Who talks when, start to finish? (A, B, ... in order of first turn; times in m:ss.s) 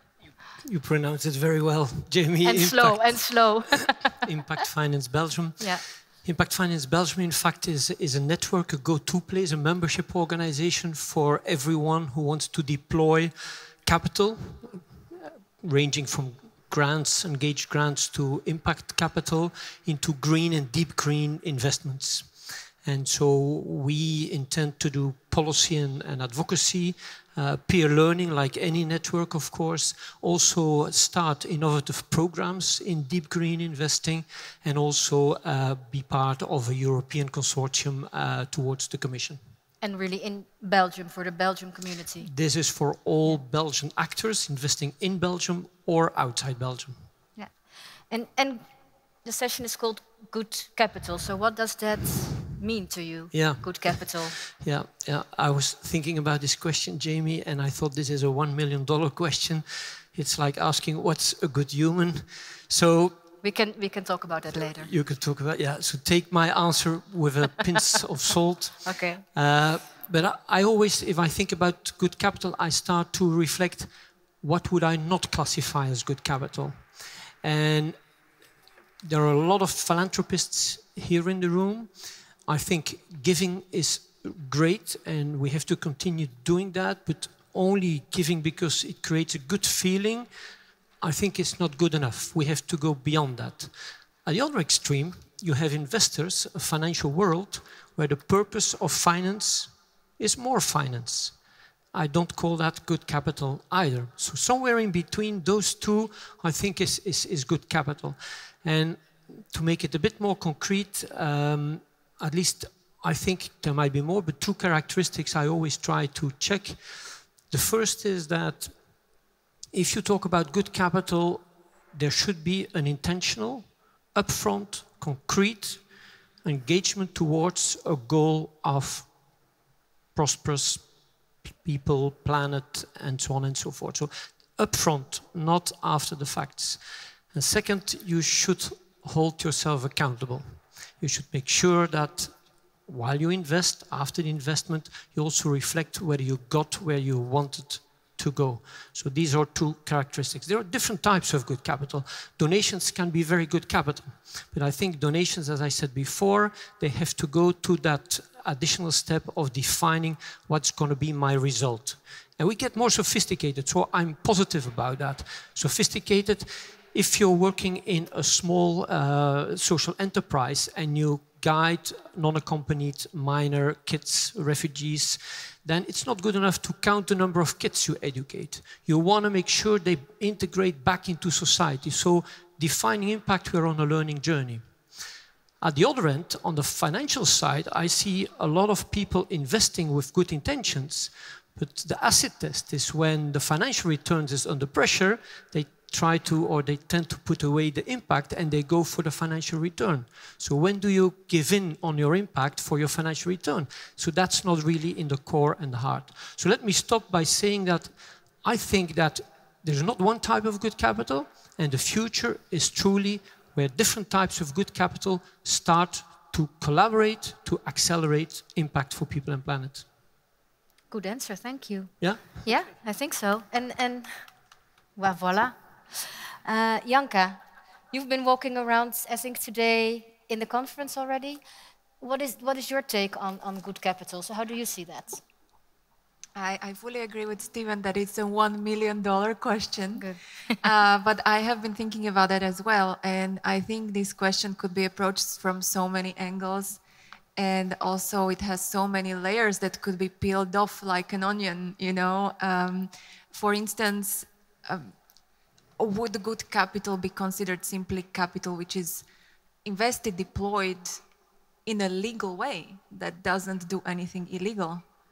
0:00.6-0:39.4 A
0:02.4-0:04.2 B
0:05.6-0:05.8 B
0:39.8-0:42.3 B
0:42.2-0:47.1 A
0:47.4-0:48.7 B
0:49.2-0:54.4 B
0:53.3-1:03.2 A
1:03.4-1:04.9 B
1:04.8-1:18.0 A
1:08.8-1:09.2 B
1:19.0-1:30.3 A
1:31.0-1:41.4 A
1:41.9-1:59.0 A
1:59.7-2:05.9 A
2:06.4-2:09.1 A
2:10.2-2:10.9 A
2:11.5-3:04.7 A
3:05.6-3:39.9 A
3:40.9-3:44.3 B
3:42.0-3:42.5 A
3:45.0-3:47.4 B
3:47.9-3:51.4 B
3:52.0-3:55.2 B
3:56.4-4:06.8 C
4:00.0-4:00.7 B
4:07.4-4:14.9 C
4:15.8-4:19.0 C
4:19.6-4:21.0 C
4:21.7-4:24.8 C